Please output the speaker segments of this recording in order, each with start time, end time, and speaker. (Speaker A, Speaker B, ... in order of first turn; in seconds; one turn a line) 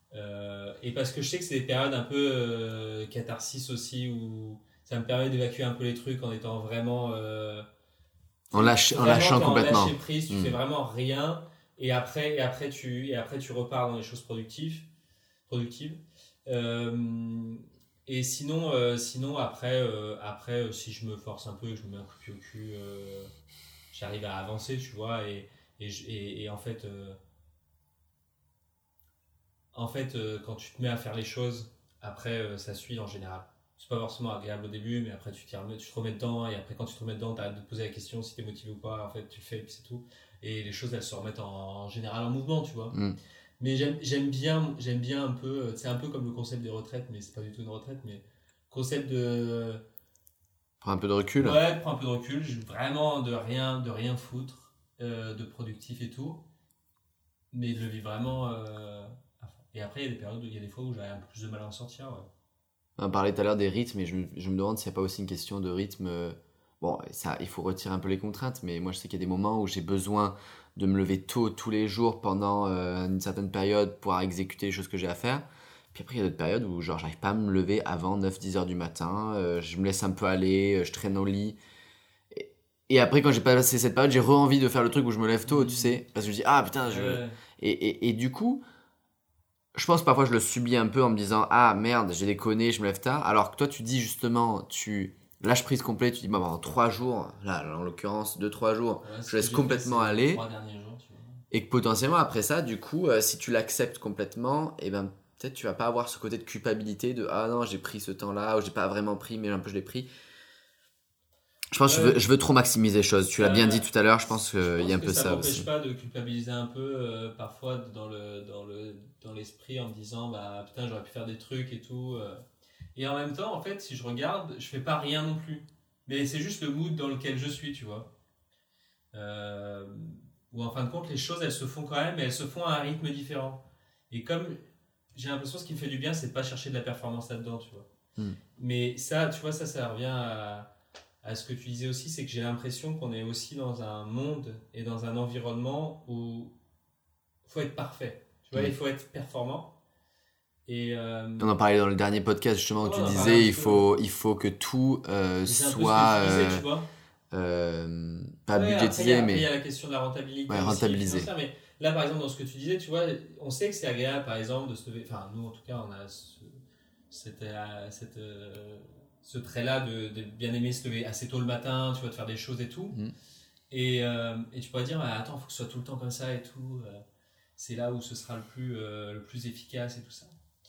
Speaker A: 0.1-7.7
Speaker B: 8.5-10.6
Speaker A: 8.5-14.9
Speaker A: 15.5-23.3
Speaker A: 23.9-27.2
Speaker A: 29.7-43.0
Speaker B: 42.9-43.2
Speaker A: 43.6-49.8
Speaker B: 50.8-51.6
Speaker A: 51.4-56.4
Speaker A: 57.5-62.3
Speaker B: 63.0-81.6
Speaker B: 82.3-88.6
Speaker A: 85.5-86.0
Speaker A: 86.9-87.4
Speaker B: 89.8-100.4
Speaker A: 99.0-101.4
Speaker B: 101.5-110.1
Speaker B: 111.7-115.7
Speaker A: 111.9-112.2
Speaker A: 113.4-113.9
Speaker A: 114.6-122.4
Speaker A: 123.0-128.1
Speaker A: 129.1-134.6
Speaker A: 135.1-137.9
Speaker A: 138.6-140.7
Speaker A: 141.2-146.5
Speaker A: 147.4-149.7
Speaker A: 150.7-151.5
Speaker B: 151.4-156.6
Speaker A: 152.8-153.9
Speaker A: 155.5-156.9
Speaker B: 157.3-159.5
Speaker A: 158.5-166.6
Speaker B: 160.5-161.3
Speaker A: 167.1-173.0
Speaker A: 173.7-177.0
Speaker A: 177.6-180.3